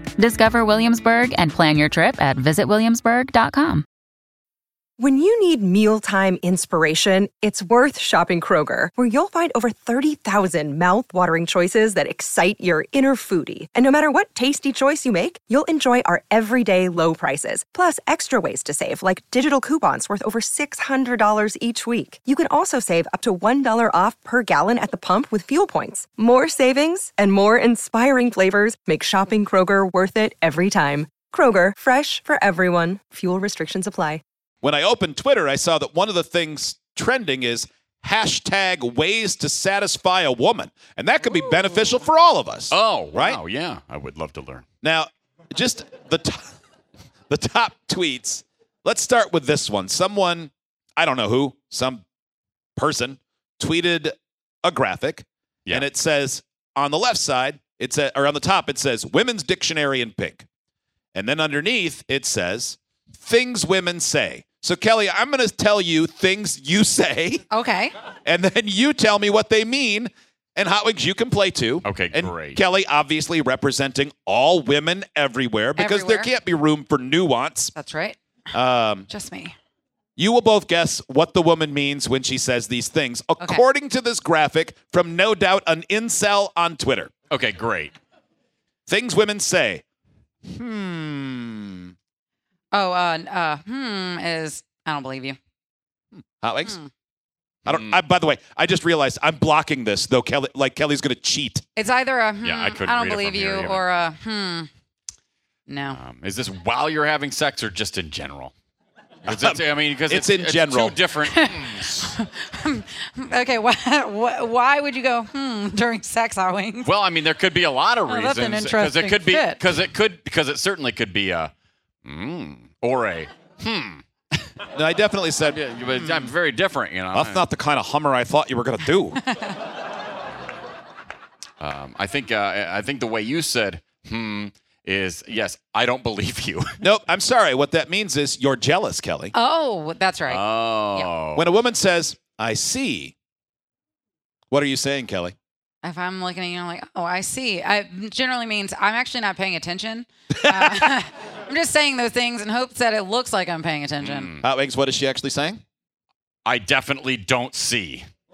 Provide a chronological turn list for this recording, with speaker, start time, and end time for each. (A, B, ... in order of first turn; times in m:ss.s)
0:00.2-0:03.9 A
0:05.0-0:34.2 B
0:34.6-0:43.4 C
0:42.7-0:44.6 D
0:44.8-0:46.5 C
0:47.3-0:52.0 C
0:52.8-1:00.4 C
1:01.1-1:07.4 C
1:07.5-1:07.9 E
1:08.2-1:17.7 C
1:11.8-1:12.6 D
1:15.8-1:16.3 E
1:17.7-1:18.2 E
1:18.5-1:19.1 C
1:19.1-1:19.6 E
1:20.2-1:27.1 C
1:23.4-1:23.6 E
1:27.3-1:27.9 D
1:28.9-1:29.8 C
1:30.4-1:31.8 C
1:32.7-1:35.4 E
1:36.2-1:36.8 C
1:37.7-1:41.6 C
1:37.7-1:38.0 D
1:41.8-1:44.7 E
1:42.4-1:43.9 D
1:45.7-1:46.0 E
1:45.9-1:48.5 D
1:49.2-1:52.2 D
1:49.3-1:51.0 C
1:51.3-1:56.9 E
1:56.8-2:01.5 D
1:58.1-1:59.6 E
2:02.0-2:04.1 D
2:04.7-2:06.3 C
2:05.5-2:07.4 D
2:07.1-2:09.2 C
2:09.3-2:09.6 E
2:11.6-2:16.7 D
2:16.8-2:19.3 C
2:19.3-2:20.4 E
2:20.3-2:21.5 D
2:21.4-2:23.1 C
2:24.5-2:25.4 C
2:25.8-2:34.3 E
2:30.3-2:30.9 C
2:34.0-2:34.5 D
2:34.4-2:35.6 C
2:36.4-2:38.1 D